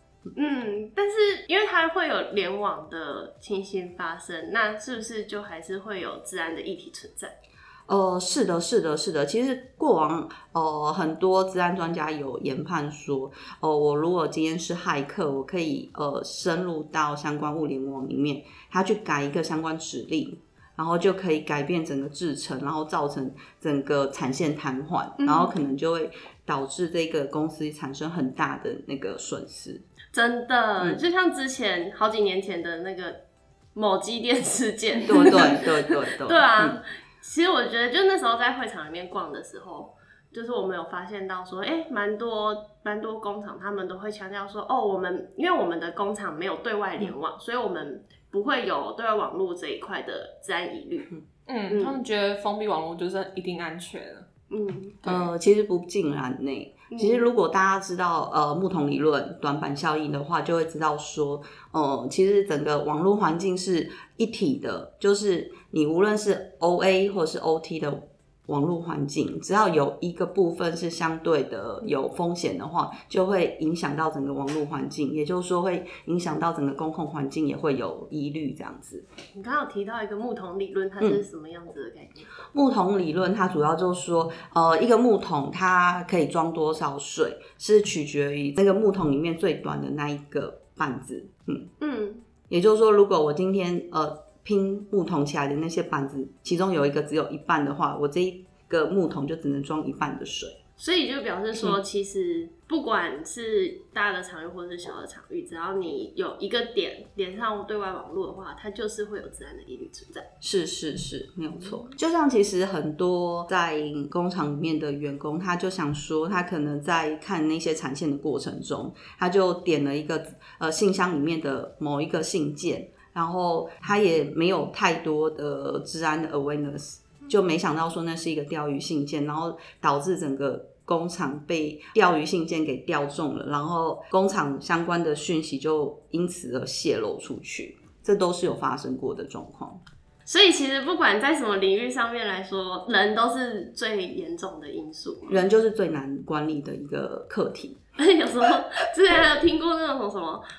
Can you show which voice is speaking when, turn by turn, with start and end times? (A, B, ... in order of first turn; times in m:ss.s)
0:00.4-0:07.3 A
0:07.9-0:29.8 B
0:25.2-0:25.5 A
0:30.1-0:33.2 A
0:33.8-0:51.1 A
0:35.1-0:36.8 B
0:51.5-0:54.3 C
0:51.7-0:52.0 A
0:54.5-0:55.0 A
0:55.0-0:55.3 C
0:55.0-1:19.0 B
0:56.9-0:57.2 A
1:19.3-1:22.4 A
1:22.5-1:31.7 B
1:31.8-1:32.2 A
1:32.5-1:40.6 B
1:40.8-1:50.3 A
1:50.4-2:19.8 B
2:20.3-2:25.4 A
2:25.3-2:27.8 B
2:28.0-2:30.4 A